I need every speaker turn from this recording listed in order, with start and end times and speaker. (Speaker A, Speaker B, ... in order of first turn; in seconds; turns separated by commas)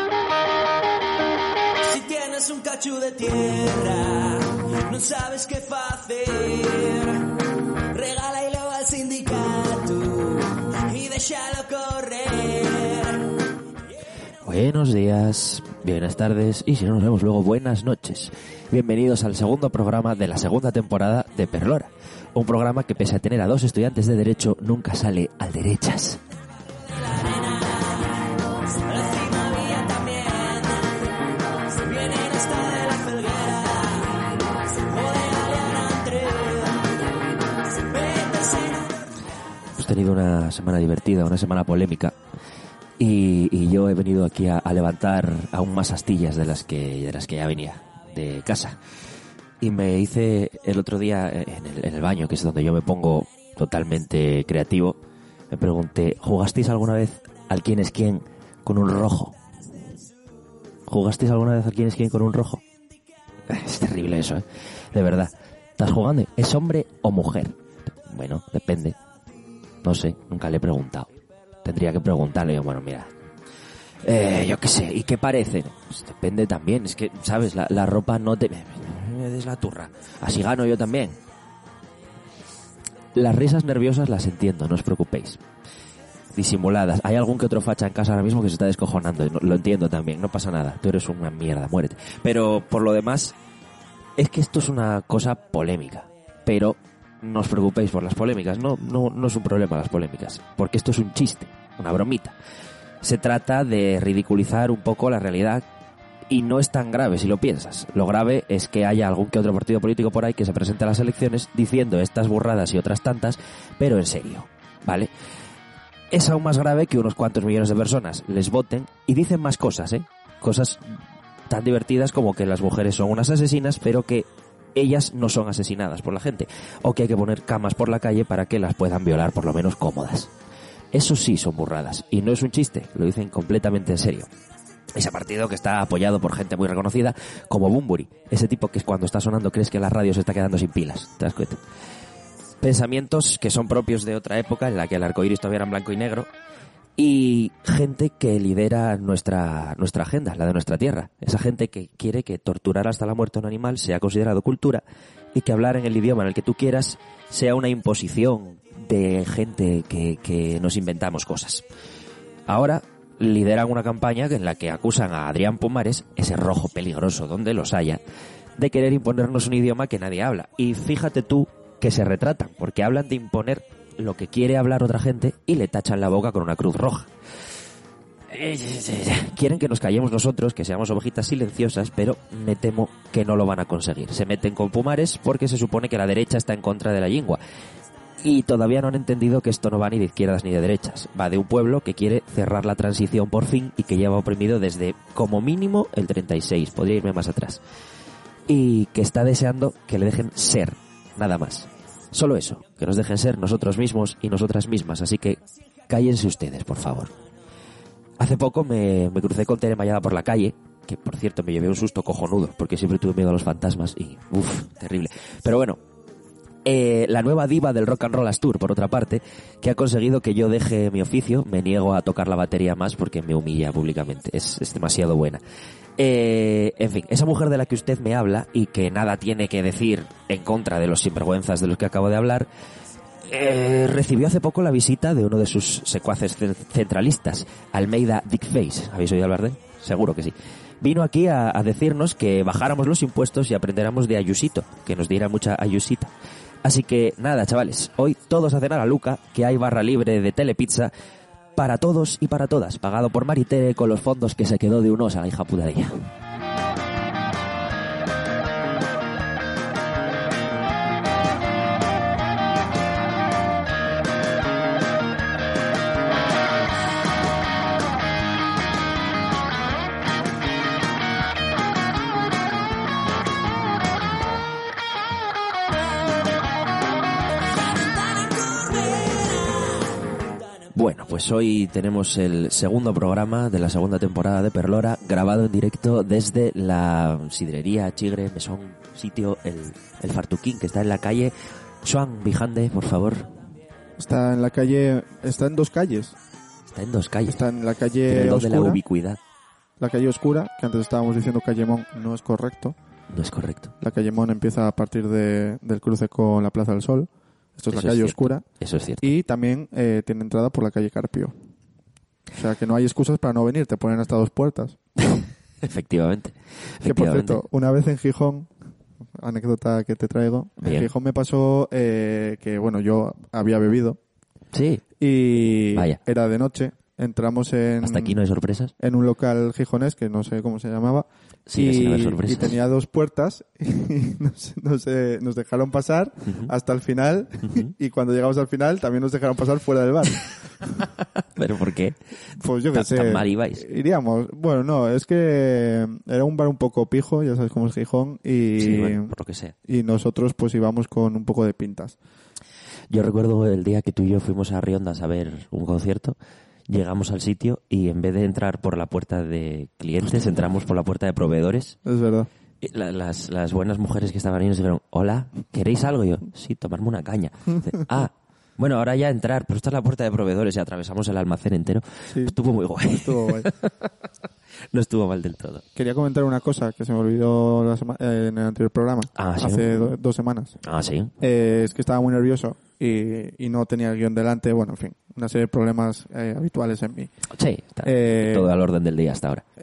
Speaker A: 1.8-7.4, Speaker A: 7.9-13.3, Speaker B: 14.4-26.2, Speaker A: 27.2-28.1, Speaker A: 28.8-31.1, Speaker A: 31.8-37.1, Speaker A: 37.8-39.0, Speaker B: 39.8-42.2, Speaker B: 43.0-48.8, Speaker B: 49.6-55.0, Speaker B: 55.5-59.4, Speaker B: 60.9-62.6, Speaker B: 63.5-69.0, Speaker B: 69.8-71.1, Speaker B: 71.6-73.1, Speaker B: 74.0-81.2, Speaker B: 83.2-85.4, Speaker B: 86.4-93.4, Speaker B: 94.2-102.3, Speaker B: 103.0-105.7, Speaker B: 106.3-115.1, Speaker B: 116.1-120.8, Speaker B: 121.5-130.3, Speaker B: 130.9-134.3, Speaker B: 134.9-141.6, Speaker B: 142.6-146.3, Speaker B: 147.0-154.8, Speaker B: 155.3-161.7, Speaker B: 162.5-168.0, Speaker B: 168.6-177.1, Speaker B: 178.3-187.4, Speaker B: 188.2-197.6, Speaker B: 198.5-207.1, Speaker B: 208.2-215.8, Speaker B: 216.7-225.4, Speaker B: 226.0-232.5, Speaker B: 233.2-246.1, Speaker B: 246.7-250.9, Speaker B: 251.6-256.1, Speaker B: 278.6-279.7, Speaker B: 280.7-293.3, Speaker C: 294.0-296.2, Speaker B: 296.7-297.4, Speaker C: 297.3-298.8, Speaker B: 298.1-299.2, Speaker C: 299.8-302.8, Speaker B: 303.1-303.7, Speaker C: 303.8-308.4, Speaker B: 307.7-309.1, Speaker C: 309.0-311.3, Speaker C: 312.4-314.8, Speaker B: 315.2-317.4, Speaker C: 316.8-318.5, Speaker C: 319.2-324.0, Speaker B: 320.6-320.9, Speaker B: 324.5-324.8, Speaker C: 325.0-328.2, Speaker B: 325.7-326.0, Speaker B: 327.8-328.7, Speaker C: 328.8-340.2, Speaker B: 331.5-332.6, Speaker B: 341.4-342.0, Speaker C: 342.4-349.1, Speaker B: 342.7-343.6, Speaker B: 348.6-349.5, Speaker C: 349.7-352.0, Speaker B: 352.9-356.2, Speaker B: 356.7-361.8, Speaker C: 361.9-362.3, Speaker B: 362.6-373.7, Speaker C: 373.0-373.5, Speaker B: 374.7-375.6, Speaker C: 375.8-380.6, Speaker B: 379.2-379.9, Speaker B: 380.6-381.1, Speaker C: 381.2-387.1, Speaker B: 387.3-389.4, Speaker C: 387.9-388.5